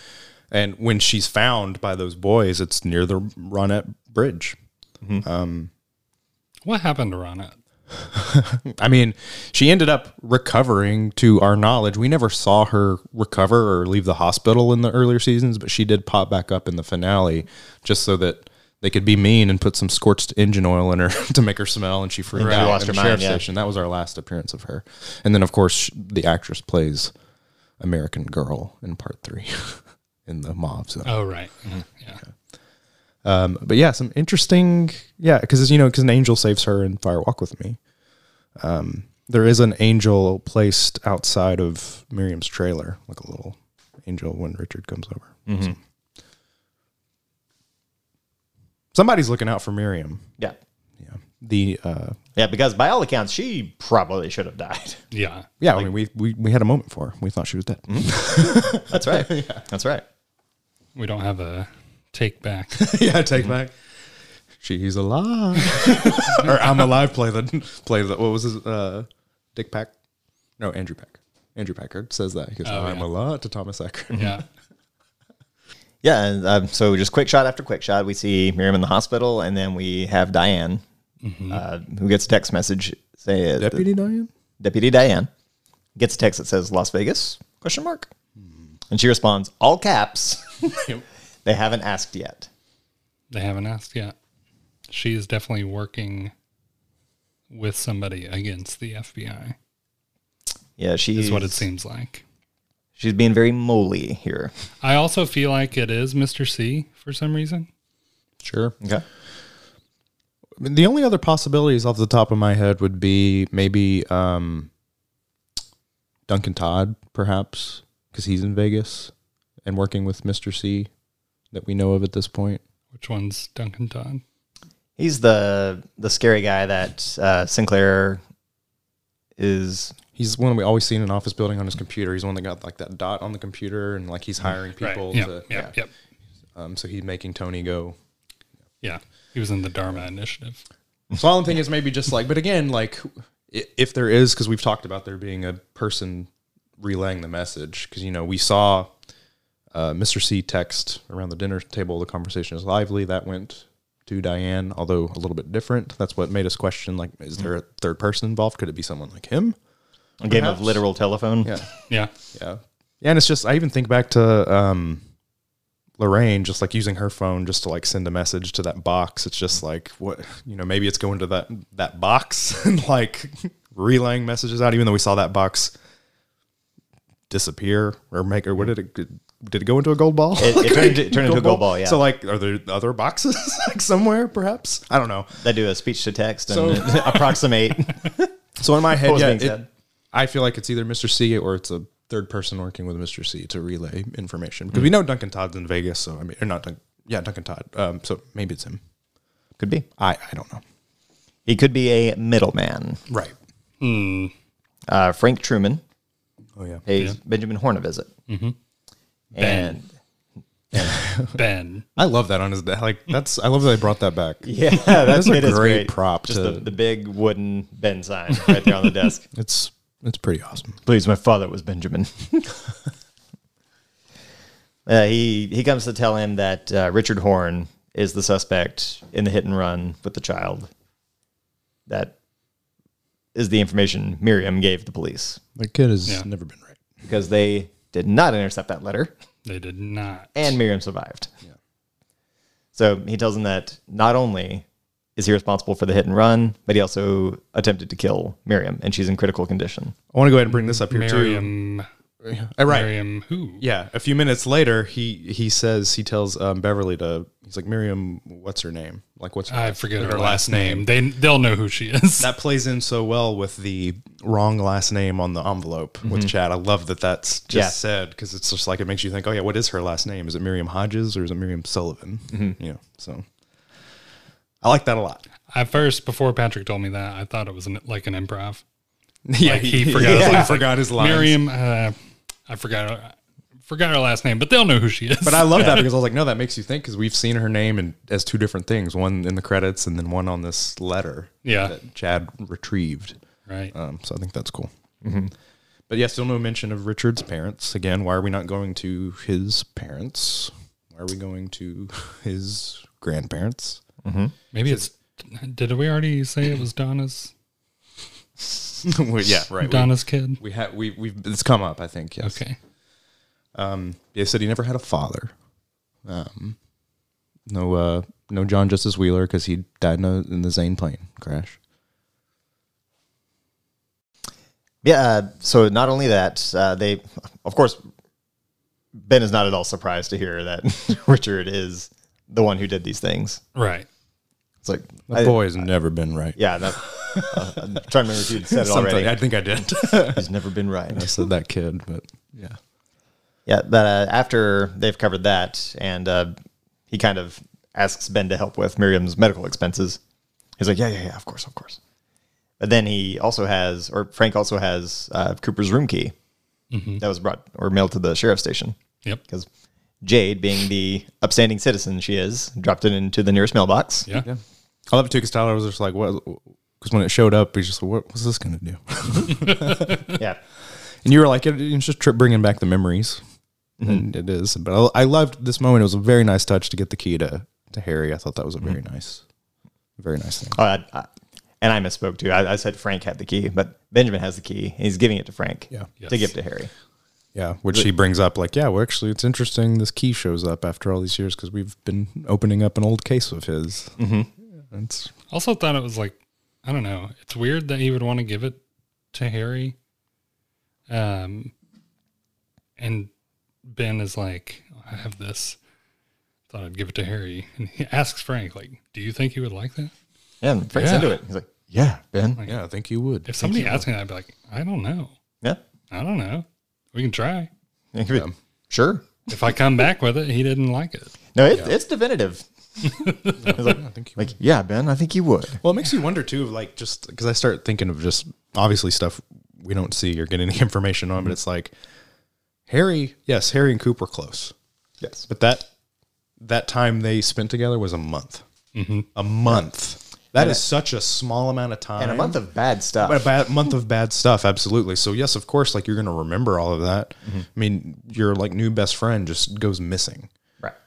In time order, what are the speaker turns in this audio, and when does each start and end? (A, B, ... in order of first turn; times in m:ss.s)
0:00.5-0:04.6 A
0:05.2-0:05.7 A
0:06.6-0:07.6 B
0:08.0-0:27.1 A
0:22.3-0:23.4 C
0:22.4-0:22.7 B
0:27.8-0:31.1 A
0:31.0-0:32.2 B
0:33.2-0:37.8 A
0:38.6-0:45.8 A
0:45.4-0:45.8 C
0:48.9-0:50.2 A
0:51.0-0:52.2 A
0:52.4-0:55.0 C
0:55.1-0:55.5 B
0:55.6-0:59.6 A
0:57.9-1:00.0 C
1:00.9-1:02.9 B
1:02.7-1:03.8 A
1:04.6-1:09.9 A
1:10.6-1:14.4 A
1:12.6-1:13.1 B
1:14.1-1:14.4 C
1:14.2-1:14.4 B
1:16.0-1:20.8 C
1:21.2-1:21.6 B
1:21.5-1:23.9 C
1:23.6-1:24.3 A
1:24.6-1:25.3 C
1:26.0-1:28.1 C
1:28.4-1:28.7 A
1:28.9-1:30.9 C
1:31.4-1:32.5 C
1:33.3-1:34.1 B
1:34.9-1:36.3 B
1:37.5-1:39.6 B
1:40.8-1:41.6 C
1:41.1-1:42.2 B
1:43.0-1:44.5 C
1:44.8-1:47.7 B
1:48.4-1:48.8 A
1:50.6-1:54.7 A
1:56.3-1:59.1 A
1:59.6-2:00.9 A
2:01.5-2:02.6 A
2:02.9-2:04.2 B
2:05.0-2:08.2 C
2:09.4-2:09.9 C
2:10.1-2:15.6 A
2:14.8-2:15.9 B
2:16.5-2:18.0 A
2:18.8-2:20.6 B
2:21.1-2:28.9 A
2:29.7-2:39.6 A
2:40.2-2:41.5 C
2:40.2-2:40.8 A
2:41.4-2:41.7 A
2:42.2-2:45.0 A
2:46.0-2:55.7 A
2:57.3-3:05.4 A
3:00.4-3:02.0 C
3:05.4-3:08.3 C
3:06.5-3:07.4 A
3:08.6-3:09.6 A
3:09.0-3:09.7 C
3:10.1-3:18.8 A
3:19.6-3:19.8 C
3:20.0-3:20.6 A
3:21.4-3:23.0 C
3:23.1-3:23.3 A
3:23.8-3:24.3 B
3:24.9-3:25.8 C
3:26.6-3:26.8 A
3:26.9-3:28.1 C
3:28.3-3:28.6 B
3:29.3-3:29.9 C
3:29.4-3:29.8 B
3:30.8-3:31.4 A
3:31.3-3:31.8 B
3:32.0-3:36.7 A
3:34.4-3:39.2 C
3:39.3-3:40.8 A
3:40.8-3:42.5 C
3:44.8-3:50.7 C
3:51.9-3:52.1 C
3:53.3-3:55.4 C
3:55.6-3:56.8 A
3:57.0-3:59.1 C
3:59.4-4:00.4 B
4:00.3-4:01.3 C
4:02.7-4:04.6 C
4:05.2-4:09.9 C
4:10.1-4:11.5 A
4:10.8-4:11.9 B
4:12.2-4:12.9 A
4:12.6-4:13.6 B
4:13.6-4:20.9 A
4:19.5-4:22.3 B
4:22.2-4:33.2 A
4:26.0-4:26.3 C
4:27.5-4:27.8 C
4:32.3-4:32.6 C
4:34.6-4:35.2 A
4:35.5-4:38.6 B
4:39.3-4:41.4 A
4:39.4-4:42.0 B
4:40.0-4:40.5 C
4:42.5-4:45.9 B
4:45.2-4:53.2 A
4:51.4-4:51.8 B
4:53.5-4:53.7 B
4:53.7-4:54.7 A
4:55.0-4:55.3 C
4:55.9-5:03.8 A
5:04.0-5:04.3 C
5:04.5-5:07.3 B
5:08.8-5:12.4 A
5:09.5-5:10.4 B
5:12.2-5:12.6 B
5:13.5-5:15.3 A
5:16.0-5:16.6 A
5:17.5-5:21.6 A
5:24.8-5:27.8 C
5:29.0-5:33.4 C
5:33.5-5:33.9 B
5:34.6-5:35.6 C
5:35.1-5:37.6 A
5:36.4-5:39.2 C
5:38.4-5:40.3 A
5:39.9-5:41.2 C
5:40.9-5:42.6 A
5:43.4-5:46.3 C
5:46.9-5:50.0 C
5:50.6-5:51.8 C
5:52.6-5:56.1 C
5:56.7-5:57.0 B
5:57.0-5:58.8 C
6:00.0-6:04.1 C
6:04.2-6:10.2 A
6:11.0-6:13.2 A
6:13.8-6:19.2 A
6:20.0-6:20.6 A
6:20.6-6:21.1 C
6:21.6-6:26.7 C
6:26.0-6:26.3 B
6:27.3-6:34.0 A
6:34.0-6:34.3 C
6:34.7-6:35.1 A
6:35.3-6:38.6 B
6:39.1-6:39.8 B
6:40.9-6:41.5 B
6:42.8-6:43.1 B
6:43.7-6:45.6 B
6:46.5-6:49.9 B
6:50.4-6:52.4 C
6:50.7-6:51.2 B
6:52.4-6:53.7 A
6:53.2-6:55.1 B
6:53.4-6:53.8 C
6:55.9-6:57.5 B
6:57.9-6:59.0 C
6:59.3-7:01.1 B
7:01.4-7:02.4 C
7:02.9-7:03.6 B
7:03.1-7:05.6 C
7:03.4-7:04.3 A
7:05.6-7:11.7 A
7:12.7-7:14.5 A
7:15.3-7:15.7 A
7:16.4-7:18.4 A
7:18.7-7:19.1 B
7:19.1-7:22.4 A
7:20.4-7:20.6 C
7:22.0-7:23.3 C
7:23.0-7:30.3 A